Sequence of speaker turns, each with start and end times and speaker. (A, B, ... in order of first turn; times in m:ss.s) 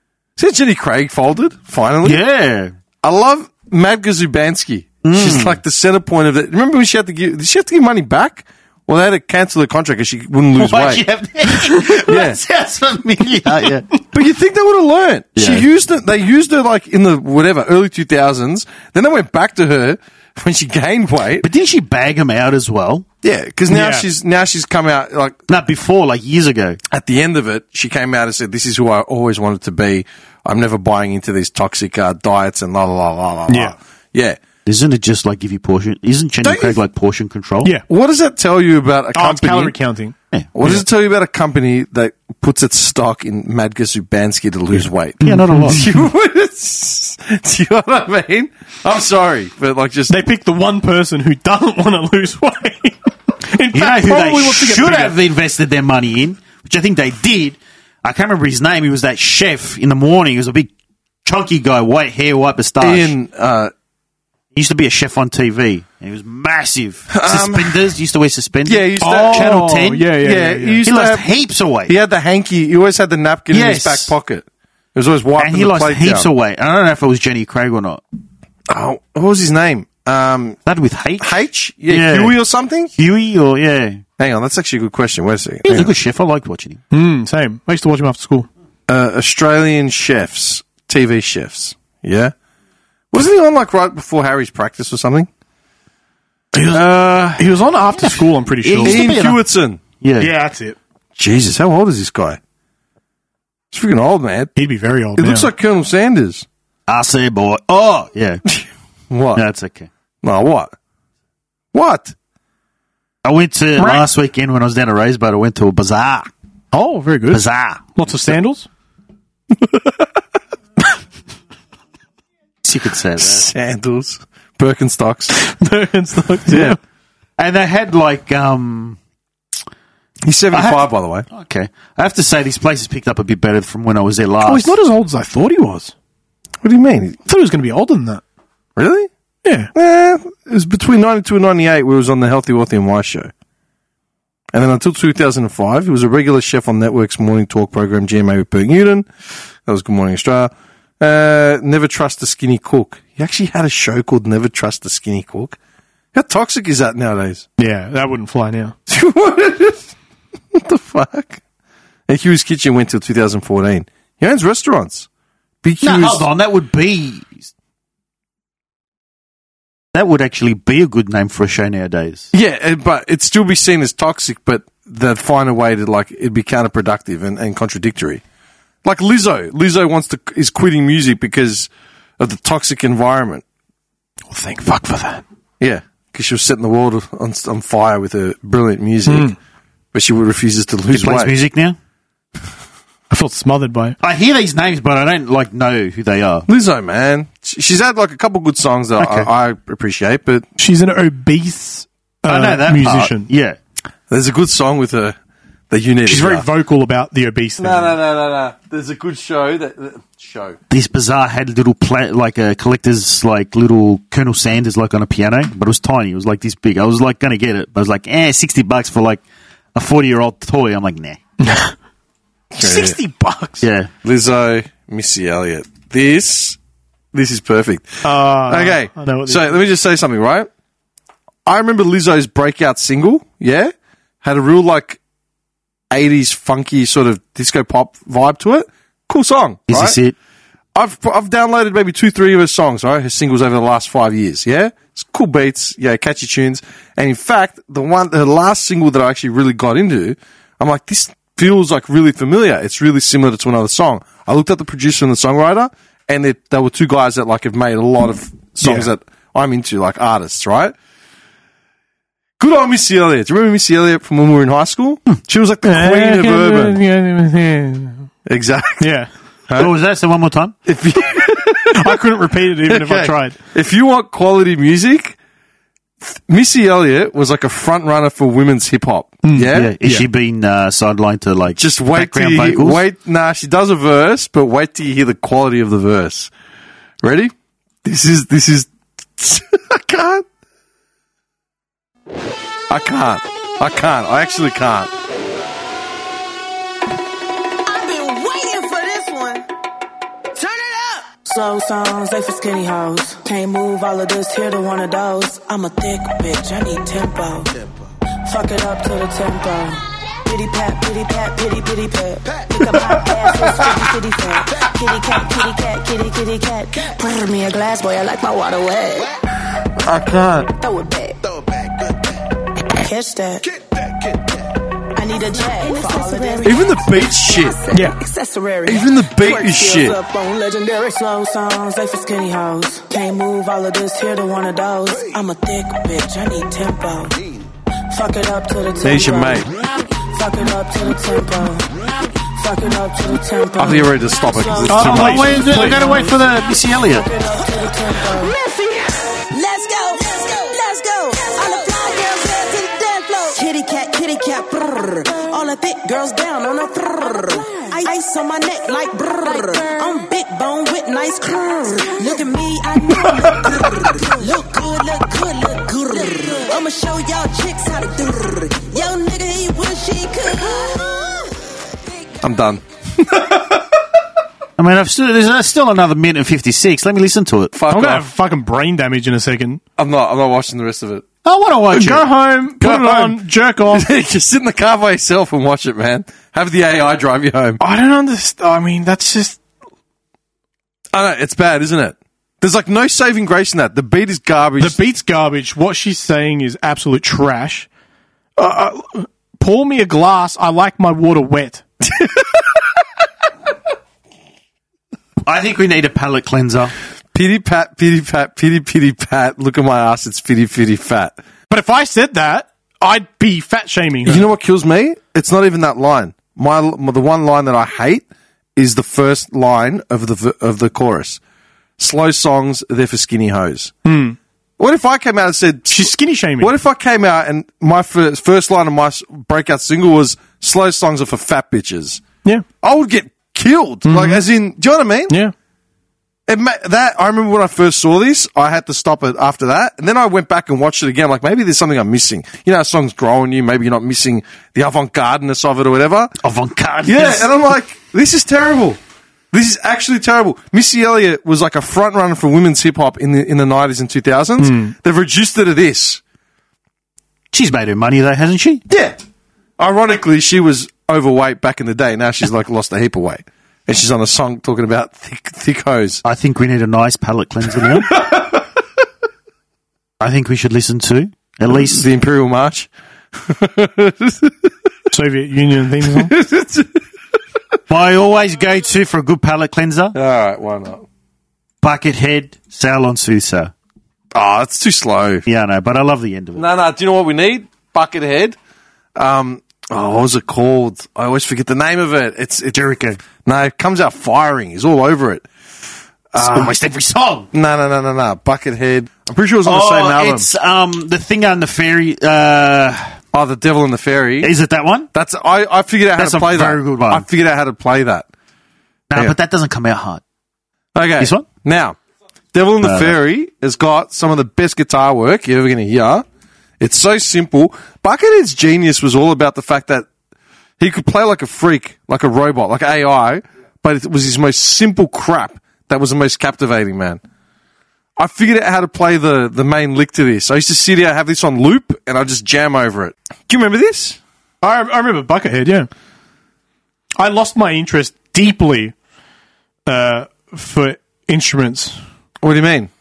0:00.4-0:02.2 A
0:02.0-0:02.7 B
0:03.0-0:11.0 A
0:05.0-0:05.5 B
0:10.6-0:14.0 B
0:12.0-0:12.4 A
0:14.1-0:21.5 A
0:15.4-0:15.6 B
0:21.4-0:23.0 B
0:23.2-0:25.4 A
0:23.7-0:24.1 C
0:25.5-0:26.8 B
0:26.9-0:34.4 A
0:33.5-0:33.8 C
0:34.6-0:37.7 B
0:36.4-0:36.8 A
0:37.9-0:39.7 A
0:39.1-0:40.8 C
0:40.5-0:50.2 A
0:44.7-0:45.8 B
0:45.2-0:45.8 C
0:50.1-0:55.2 C
0:53.7-1:00.7 B
1:01.2-1:03.1 B
1:02.8-1:03.7 A
1:04.5-1:10.1 B
1:07.1-1:07.8 A
1:08.6-1:11.3 A
1:09.0-1:10.8 C
1:10.8-1:11.9 B
1:11.8-1:16.3 A
1:13.5-1:14.1 B
1:15.4-1:18.0 B
1:18.7-1:20.6 A
1:20.6-1:21.3 B
1:21.2-1:22.9 A
1:21.9-1:22.4 B
1:23.0-1:24.0 B
1:24.2-1:25.9 A
1:25.6-1:26.8 B
1:26.9-1:28.5 C
1:28.9-1:32.3 A
1:33.1-1:35.3 A
1:36.5-1:36.8 C
1:36.7-1:39.4 B
1:37.4-1:39.1 C
1:38.8-1:39.8 A
1:40.0-1:40.3 B
1:40.2-1:40.8 C
1:41.2-1:42.4 A
1:43.7-1:44.5 A
1:44.6-1:45.5 C
1:45.2-1:46.4 A
1:46.9-1:48.4 B
1:49.1-1:49.4 A
1:49.3-1:49.9 B
1:50.2-1:50.7 A
1:51.7-1:52.1 A
1:53.2-1:56.3 B
1:56.7-1:58.7 C
1:57.3-1:57.9 B
1:59.6-2:00.1 A
2:02.6-2:03.5 B
2:03.2-2:05.3 A
2:05.3-2:06.8 C
2:06.5-2:06.8 A
2:07.4-2:09.0 B
2:10.2-2:11.2 A
2:10.5-2:14.7 B
2:14.4-2:15.9 C
2:16.6-2:17.2 A
2:17.2-2:18.2 C
2:18.8-2:19.1 A
2:19.4-2:19.7 C
2:19.7-2:23.3 A
2:24.5-2:29.1 A
2:29.6-2:35.6 A
2:36.1-2:37.5 A
2:37.6-2:38.7 C
2:38.9-2:39.9 A
2:40.5-2:41.4 A
2:42.1-2:45.1 A
2:45.6-2:46.3 A
2:45.8-2:47.5 B
2:49.9-2:52.3 B
2:52.3-2:58.2 A
2:58.8-3:03.4 A
3:04.3-3:05.2 C
3:05.6-3:09.3 A
3:09.1-3:09.4 C
3:09.9-3:11.4 A
3:10.9-3:11.8 B
3:13.1-3:14.0 C
3:14.0-3:16.5 B
3:16.5-3:20.5 A
3:19.0-3:19.2 C
3:20.6-3:23.3 C
3:22.2-3:23.6 B
3:24.1-3:25.2 A
3:25.7-3:26.4 A
3:26.0-3:28.0 C
3:27.6-3:30.6 A
3:30.7-3:39.2 B
3:39.7-3:41.2 B
3:41.4-3:41.7 C
3:42.5-3:43.0 A
3:42.6-3:43.7 C
3:43.6-3:43.9 B
3:44.0-3:46.6 A
3:47.1-3:50.5 A
3:48.0-3:49.6 C
3:51.4-3:55.0 A
3:55.9-4:00.0 A
3:59.7-4:00.1 B
4:00.7-4:20.7 A
4:18.6-4:18.9 C
4:22.4-4:26.8 A
4:25.6-4:28.1 C
4:28.2-4:28.9 A
4:28.8-4:29.1 C
4:29.5-4:30.6 B
4:30.6-4:32.0 A
4:31.7-4:33.4 C
4:32.6-4:35.2 A
4:36.0-4:39.7 A
4:39.2-4:40.1 C
4:39.5-4:42.8 B
4:41.6-4:46.3 A
4:47.0-4:47.3 A
4:47.8-4:50.2 A
4:52.7-4:54.9 A
4:57.7-4:59.4 D
5:00.4-5:01.0 D
5:01.2-5:07.5 E
5:08.2-5:19.1 E
5:13.2-5:13.7 A
5:19.8-5:20.5 A
5:20.6-5:21.2 E
5:22.7-5:23.5 E
5:25.0-5:37.2 E
5:25.4-5:26.7 D
5:26.4-5:27.6 A
5:28.6-5:30.0 A
5:37.9-5:39.5 E
5:38.8-5:39.5 A
5:40.1-5:41.7 E
5:42.4-5:44.8 E
5:43.6-5:45.5 A
5:44.7-5:46.1 C
5:44.7-5:47.1 B
5:45.5-5:46.2 E
5:46.8-5:48.3 E
5:48.0-6:11.0 D
5:51.2-5:52.0 E
5:57.1-5:57.8 E
5:59.2-6:00.0 E
6:01.9-6:02.2 E
6:06.0-6:06.3 E
6:12.2-6:13.6 A
6:14.6-6:17.5 B
6:17.5-6:18.1 A
6:17.7-6:19.6 C
6:19.8-6:21.0 A
6:21.2-6:22.1 B
6:21.7-6:23.9 C
6:22.6-6:27.6 A
6:27.6-6:29.4 C
6:30.9-6:34.8 A
6:34.6-6:37.7 C
6:38.4-6:41.6 C
6:41.9-6:42.3 A
6:45.2-6:46.7 B
6:47.1-6:51.2 A
6:51.5-6:54.3 C
6:54.0-7:01.2 A
7:01.8-7:03.7 A
7:03.8-7:04.2 C
7:04.6-7:12.0 A
7:05.7-7:06.5 C
7:12.6-7:15.2 A
7:13.8-7:14.2 C
7:16.3-7:26.1 A
7:26.2-7:27.3 B
7:26.8-7:28.8 A
7:29.3-7:36.0 A
7:34.4-7:34.7 C
7:37.3-7:38.6 B
7:38.7-7:39.0 A
7:39.6-7:46.0 A
7:46.0-7:48.0 B
7:47.6-7:48.4 A
7:50.0-7:51.8 B
7:51.5-7:54.5 A
7:54.9-7:56.1 C
7:55.8-7:56.8 A
7:57.7-8:00.0 B
7:59.9-8:00.8 A
8:01.6-8:03.5 B
8:04.1-8:05.2 A
8:05.2-8:06.4 B
8:06.4-8:08.4 A
8:09.0-8:15.3 A
8:12.5-8:13.0 B
8:16.1-8:16.5 A
8:16.2-8:17.3 B
8:17.3-8:20.3 A
8:19.4-8:23.0 B
8:23.1-8:24.3 A
8:24.2-8:24.9 B
8:24.9-8:28.1 A
8:26.0-8:27.0 B
8:28.9-8:30.0 B
8:30.7-8:31.8 A
8:31.0-8:31.3 B
8:32.3-8:36.0 A
8:32.6-8:32.9 B
8:36.6-8:39.9 A
8:40.6-8:47.0 A
8:48.0-8:54.0 A
8:54.4-8:55.7 C
8:57.0-8:58.8 C
8:59.6-9:01.8 C
9:02.2-9:02.7 A